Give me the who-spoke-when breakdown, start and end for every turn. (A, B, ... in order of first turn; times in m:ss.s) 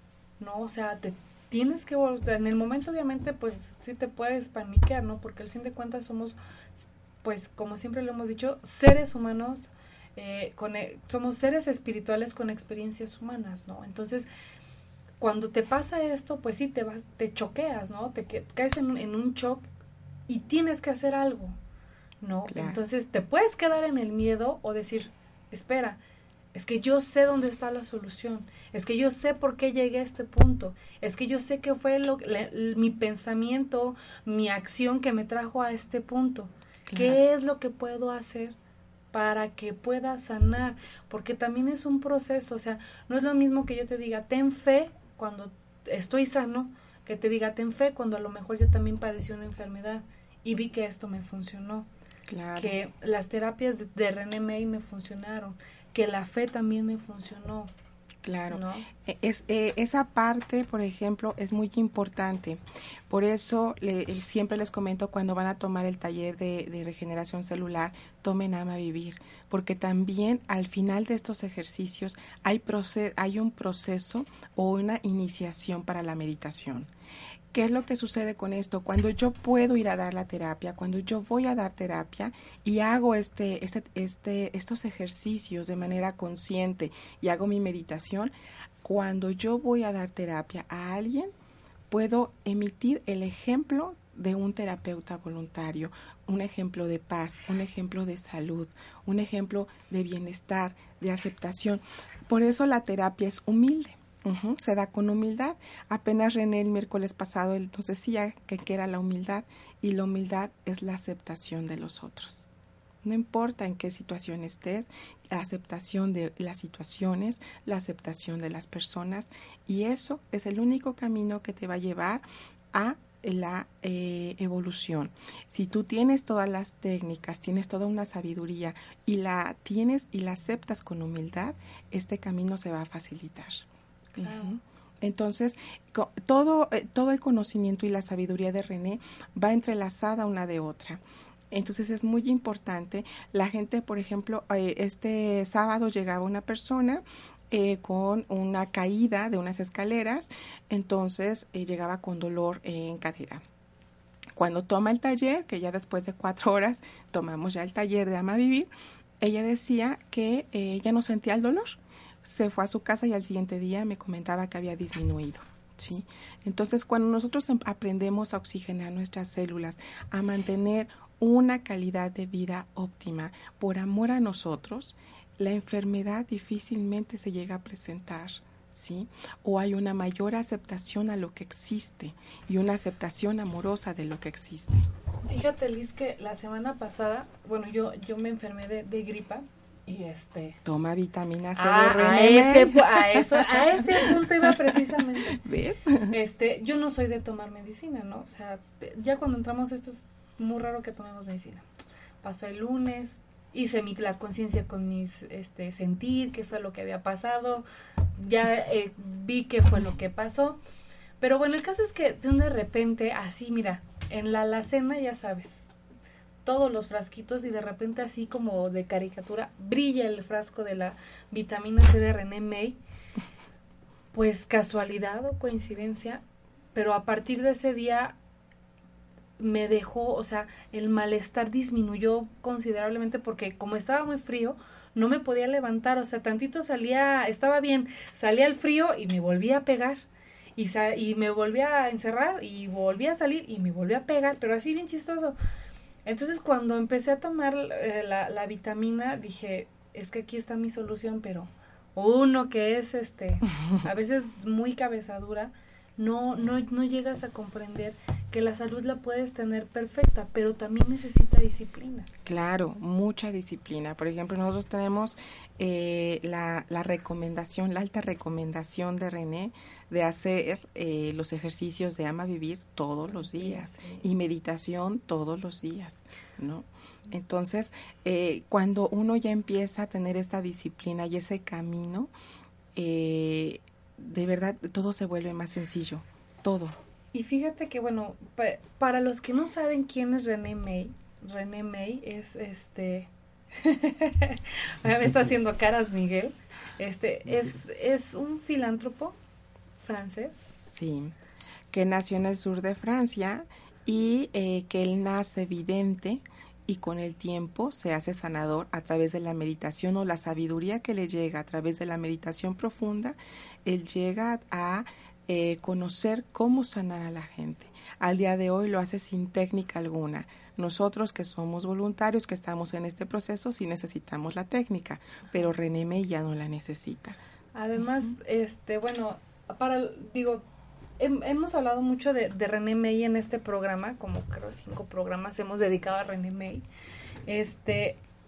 0:00.4-0:14.3 A
0:15.2-0:19.7 A
0:20.3-0:21.6 A
0:22.2-0:26.0 A
0:22.5-0:22.8 B
0:26.5-0:38.6 A
0:36.9-0:37.2 B
0:39.1-0:51.9 A
0:52.3-0:52.8 B
0:52.6-0:57.7 A
0:58.2-1:16.9 B
0:58.5-0:58.9 A
1:17.5-1:31.3 B
1:31.9-1:52.5 B
1:53.0-2:33.4 B
2:14.1-2:14.5 A
2:34.3-3:04.9 B
3:05.3-3:10.6 A
3:10.6-3:16.1 B
3:11.6-3:15.4 A
3:16.1-3:21.6 A
3:22.2-3:27.6 A
3:28.2-3:30.6 A
3:31.2-3:35.6 A
3:36.4-3:42.8 A
3:44.1-3:46.2 A
3:46.7-3:48.2 A
3:49.4-4:00.0 A
4:00.6-4:05.4 A
4:06.0-4:22.1 A
4:22.2-4:42.1 B
4:33.1-4:34.0 A
4:42.7-4:46.8 B
4:47.1-4:59.2 A
4:59.8-5:00.5 A
5:00.6-5:01.1 B
5:01.7-5:27.2 B
5:27.5-5:30.4 A
5:31.0-5:36.6 A
5:37.3-5:38.0 A